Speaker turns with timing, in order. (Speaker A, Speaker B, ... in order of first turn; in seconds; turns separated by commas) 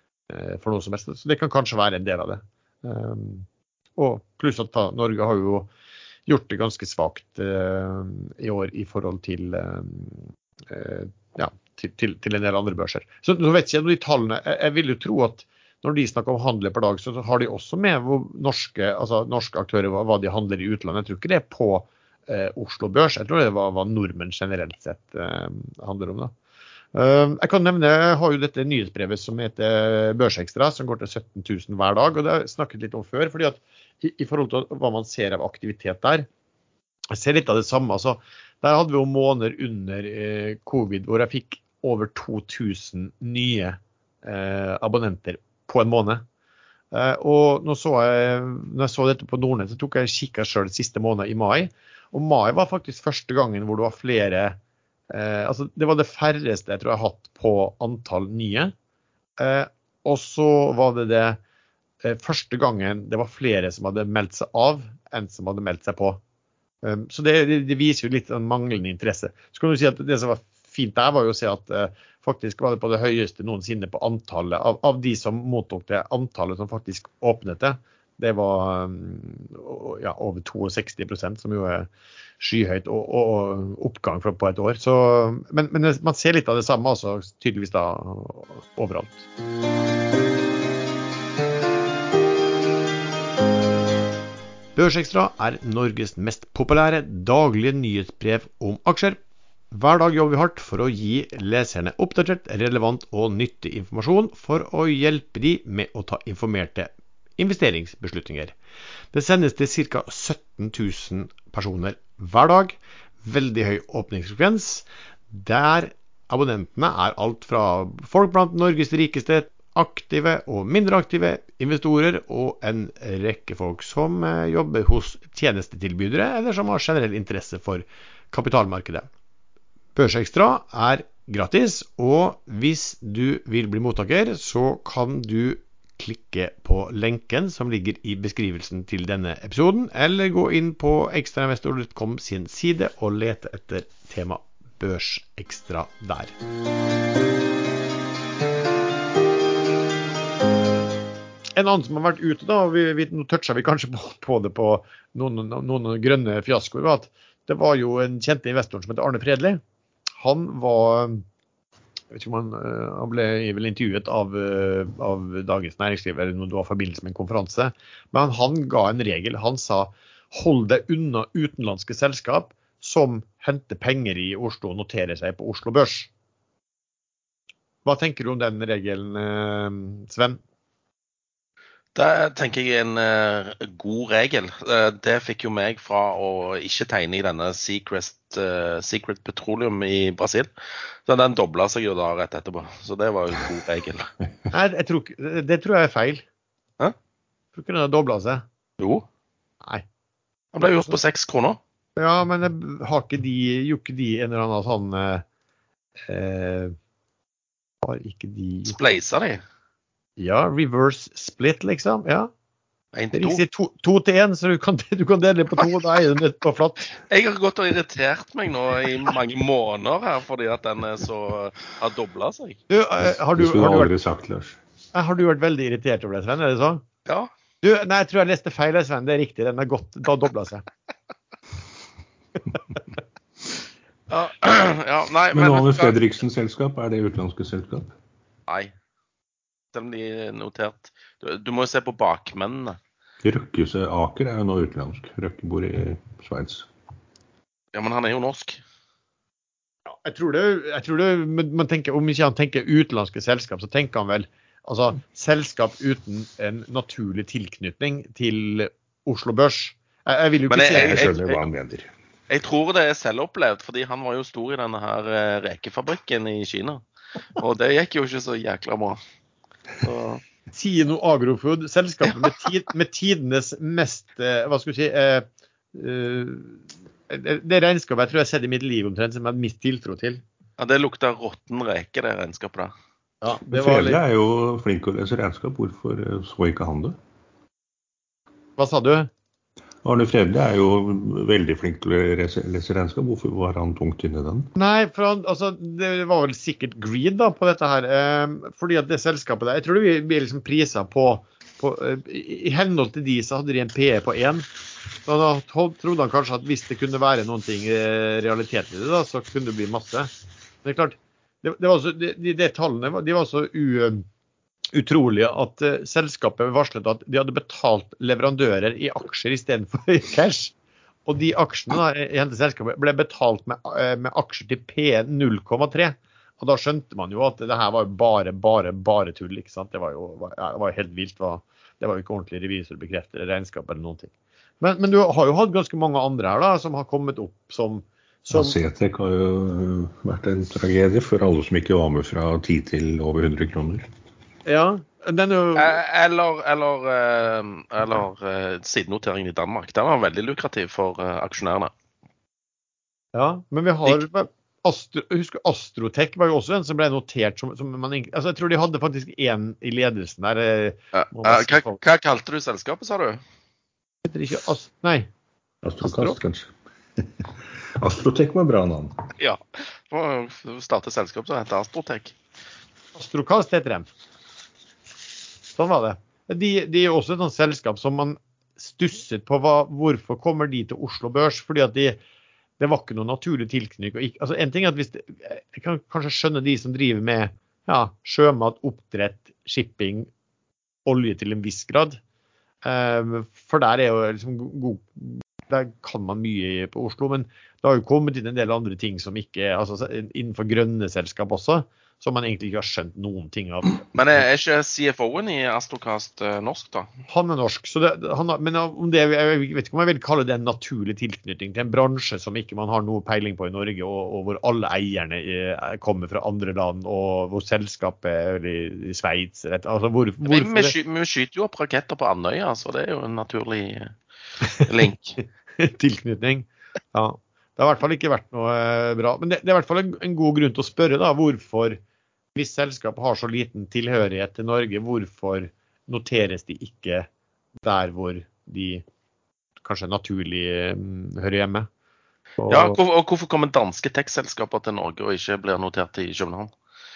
Speaker A: 0.3-3.5, Speaker A: 4.0-5.7, Speaker A: 6.3-26.3, Speaker A: 26.9-36.3, Speaker A: 37.1-46.2, Speaker A: 46.9-54.6, Speaker A: 55.1-58.7, Speaker A: 59.4-61.4, Speaker A: 62.0-66.2, Speaker A: 66.8-81.9, Speaker A: 82.4-89.3, Speaker A: 94.8-99.2, Speaker A: 99.7-108.5, Speaker A: 109.1-129.1, Speaker A: 129.9-146.3, Speaker A: 151.6-159.6, Speaker A: 160.2-161.2, Speaker A: 162.1-176.1, Speaker A: 177.8-180.4, Speaker B: 181.9-190.5, Speaker B: 191.1-194.1, Speaker A: 194.5-196.2, Speaker A: 197.5-198.4, Speaker B: 198.8-199.1, Speaker B: 200.5-201.6, Speaker A: 202.0-205.2, Speaker A: 206.1-206.8, Speaker A: 207.8-208.8, Speaker B: 208.7-209.4, Speaker A: 210.2-212.3, Speaker B: 212.9-213.4, Speaker A: 213.1-217.0, Speaker B: 217.1-222.6, Speaker A: 222.7-223.9, Speaker C: 223.0-224.6, Speaker A: 224.9-226.8, Speaker A: 227.6-230.6, Speaker B: 234.1-235.9, Speaker C: 235.3-237.9, Speaker B: 238.5-238.7, Speaker B: 239.7-242.8, Speaker C: 243.2-246.7, Speaker B: 247.7-248.6, Speaker A: 249.8-261.4, Speaker B: 260.5-261.1, Speaker C: 260.7-261.9, Speaker B: 262.3-266.8, Speaker B: 267.4-269.0, Speaker B: 269.8-270.2, Speaker A: 270.5-280.2, Speaker B: 280.6-282.7, Speaker A: 283.2-284.0, Speaker C: 283.5-286.9, Speaker A: 288.6-289.1, Speaker C: 289.8-294.5, Speaker A: 294.5-304.5, Speaker A: 305.0-310.1, Speaker A: 310.6-314.0, Speaker A: 314.7-320.5, Speaker A: 321.1-338.6, Speaker C: 338.3-343.9, Speaker A: 344.4-345.8, Speaker B: 345.6-351.7, Speaker A: 353.1-361.8, Speaker B: 360.9-363.2, Speaker A: 364.0-365.1, Speaker C: 365.6-368.9, Speaker A: 365.8-366.2, Speaker B: 369.2-372.1, Speaker A: 372.9-373.9, Speaker A: 375.5-382.0, Speaker A: 382.6-390.1, Speaker A: 390.9-392.0, Speaker A: 392.6-404.2, Speaker B: 403.9-406.9, Speaker A: 407.1-420.7, Speaker B: 420.2-423.9, Speaker B: 424.5-425.2, Speaker A: 425.6-431.8, Speaker A: 432.3-437.1, Speaker A: 437.6-438.8, Speaker A: 439.6-441.7, Speaker A: 442.4-442.8, Speaker B: 442.5-446.5